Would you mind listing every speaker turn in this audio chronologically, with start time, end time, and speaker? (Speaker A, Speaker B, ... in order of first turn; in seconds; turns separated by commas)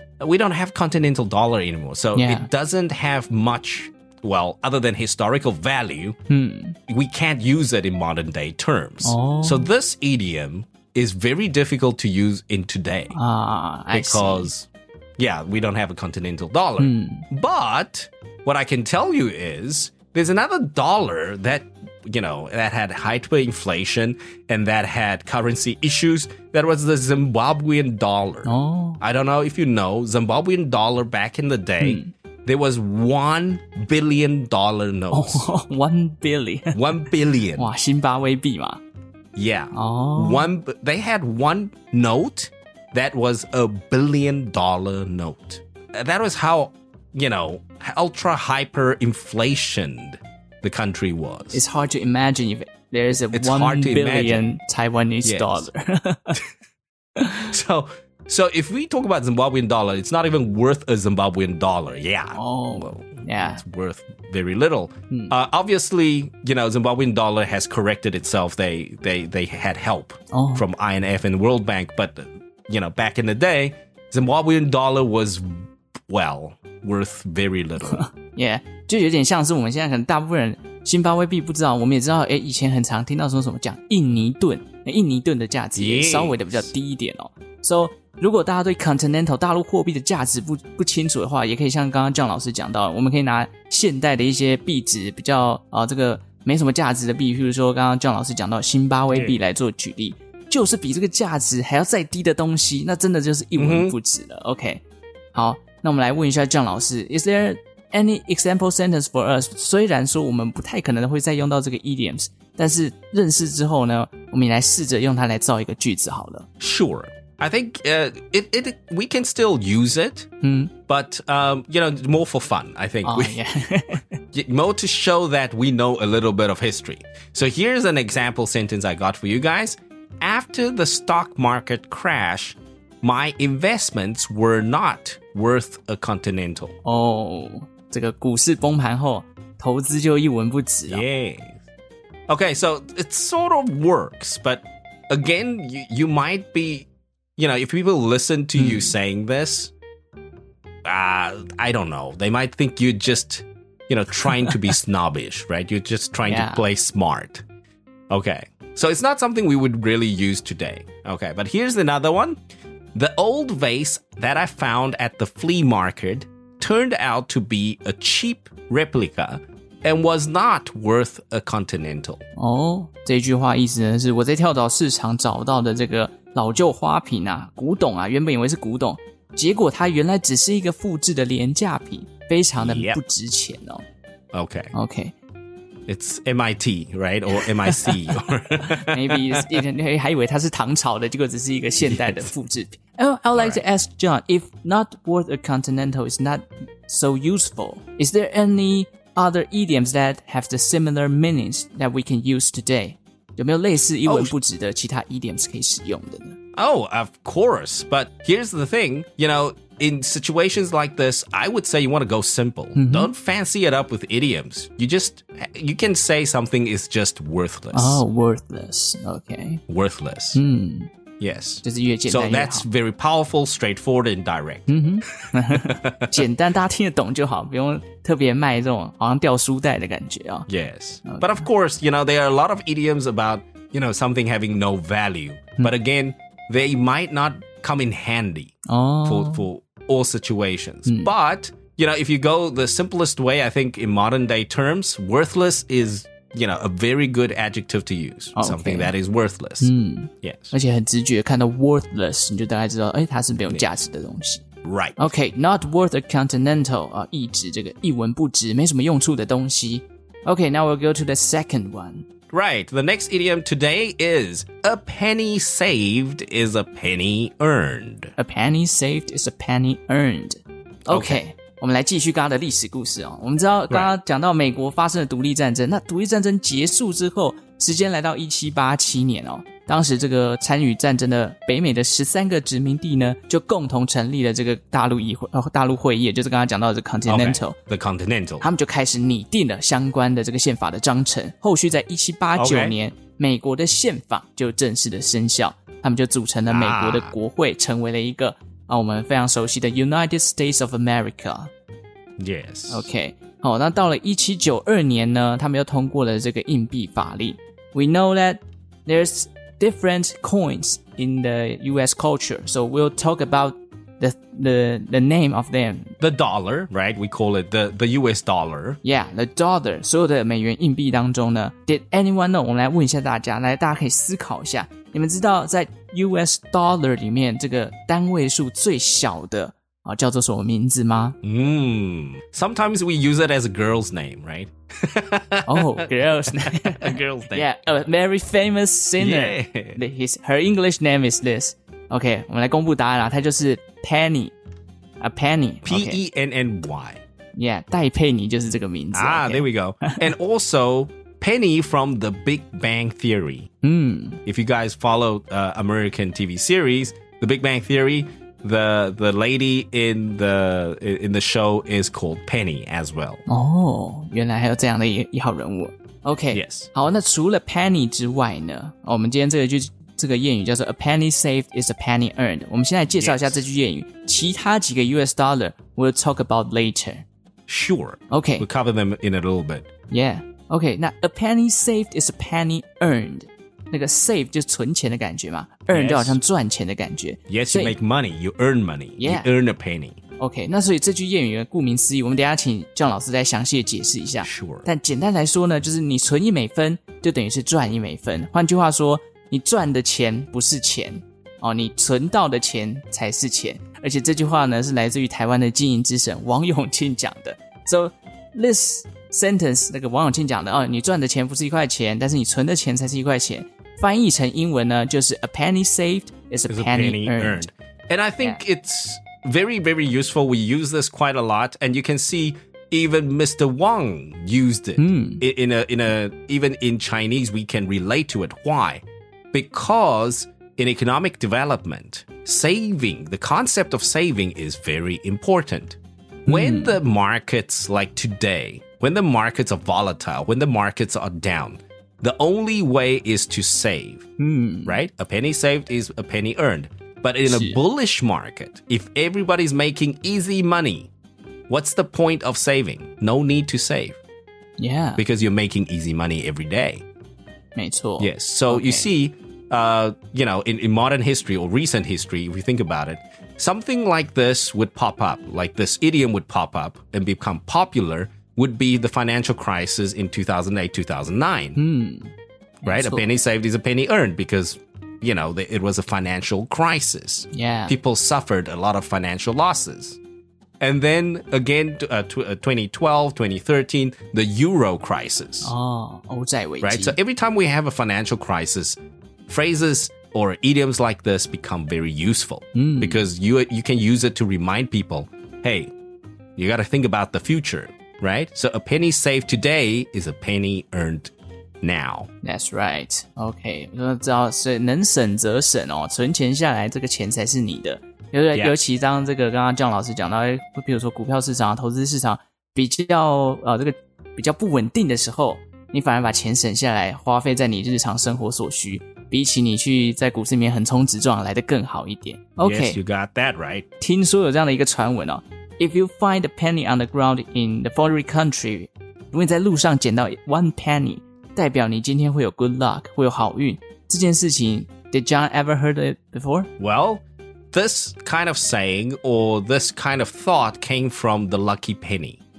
Speaker A: 0.2-6.2, Speaker B: 2.1-2.5, Speaker B: 6.3-6.8, Speaker A: 6.9-13.2, Speaker B: 9.0-9.7, Speaker B: 13.1-14.5, Speaker A: 13.9-35.5, Speaker B: 16.8-17.2, Speaker B: 28.4-29.0, Speaker B: 31.8-32.1, Speaker B: 35.1-36.8, Speaker A: 36.7-37.7, Speaker B: 37.5-38.8, Speaker A: 39.4-51.6, Speaker B: 39.7-40.5, Speaker B: 51.5-56.4, Speaker A: 53.3-54.6, Speaker A: 55.2-55.7, Speaker B: 57.2-57.5, Speaker A: 57.4-78.1, Speaker B: 62.4-63.6, Speaker B: 70.3-70.7, Speaker B: 77.8-104.8, Speaker A: 85.8-86.7, Speaker A: 103.6-104.0, Speaker B: 105.3-116.5, Speaker A: 116.6-120.3, Speaker B: 120.4-120.7, Speaker A: 120.9-123.4, Speaker B: 123.0-124.1, Speaker A: 124.3-136.8, Speaker B: 136.8-141.0, Speaker A: 140.9-141.6, Speaker A: 142.3-149.7, Speaker B: 148.6-148.9, Speaker A: 150.8-157.4, Speaker B: 156.3-156.6, Speaker A: 158.1-162.4, Speaker A: 162.9-172.2, Speaker B: 172.4-183.8, Speaker A: 182.6-183.0, Speaker A: 184.3-184.7, Speaker B: 184.7-185.2, Speaker A: 185.9-189.6, Speaker B: 187.4-188.0, Speaker B: 188.7-206.4, Speaker A: 191.8-192.3, Speaker A: 193.3-193.6, Speaker A: 204.1-204.3, Speaker A: 206.6-218.0, Speaker B: 212.8-213.1, Speaker B: 217.7-219.6, Speaker A: 219.7-220.4, Speaker B: 220.3-220.9, Speaker A: 221.2-226.2, Speaker B: 221.6-222.7, Speaker B: 224.7-230.5, Speaker A: 230.5-249.7, Speaker B: 231.1-231.5, Speaker B: 238.7-239.5, Speaker B: 240.9-241.1, Speaker B: 248.3-248.9, Speaker B: 249.6-254.4, Speaker A: 250.2-250.5, Speaker A: 254.6-255.1, Speaker B: 255.0-262.1, Speaker A: 262.3-268.1, Speaker B: 268.2-287.6, Speaker A: 270.9-271.2, Speaker A: 273.7-273.9, Speaker A: 287.1-288.5, Speaker B: 288.4-301.5, Speaker A: 292.4-292.8, Speaker A: 296.5-297.2, Speaker A: 302.2-302.9, Speaker B: 302.7-315.9, Speaker A: 316.0-318.8, Speaker B: 318.8-331.2, Speaker A: 331.2-337.5, Speaker B: 335.5-344.3, Speaker A: 339.0-339.8, Speaker B: 345.0-346.0, Speaker A: 345.6-347.0, Speaker B: 347.4-350.1, Speaker A: 348.9-353.5, Speaker B: 353.6-354.2, Speaker A: 354.2-363.2, Speaker B: 363.3-377.1, Speaker A: 366.3-366.7, Speaker A: 372.9-373.4, Speaker A: 377.5-379.7, Speaker B: 378.1-378.5, Speaker B: 379.9-387.7, Speaker A: 385.7-386.2, Speaker A: 387.3-390.0, Speaker B: 389.0-389.3, Speaker B: 390.2-417.4, Speaker A: 394.2-394.7, Speaker A: 416.5-444.1, Speaker B: 424.8-425.2, Speaker B: 436.3-436.8, Speaker B: 444.2-444.8, Speaker A: 444.7-450.9, Speaker B: 447.3-447.6, Speaker A: 451.5-454.0, Speaker B: 454.6-455.0, Speaker A: 455.0-456.8, Speaker B: 457.6-458.9, Speaker A: 458.0-471.6, Speaker B: 471.6-473.1, Speaker A: 472.6-480.0, Speaker B: 477.3-477.8, Speaker A: 480.6-485.5, Speaker B: 485.4-487.0, Speaker A: 486.6-495.7, Speaker B: 492.6-493.0, Speaker A: 496.4-502.1, Speaker B: 502.2-522.8, Speaker A: 522.4-523.7, Speaker B: 523.8-536.5, Speaker A: 536.6-542.2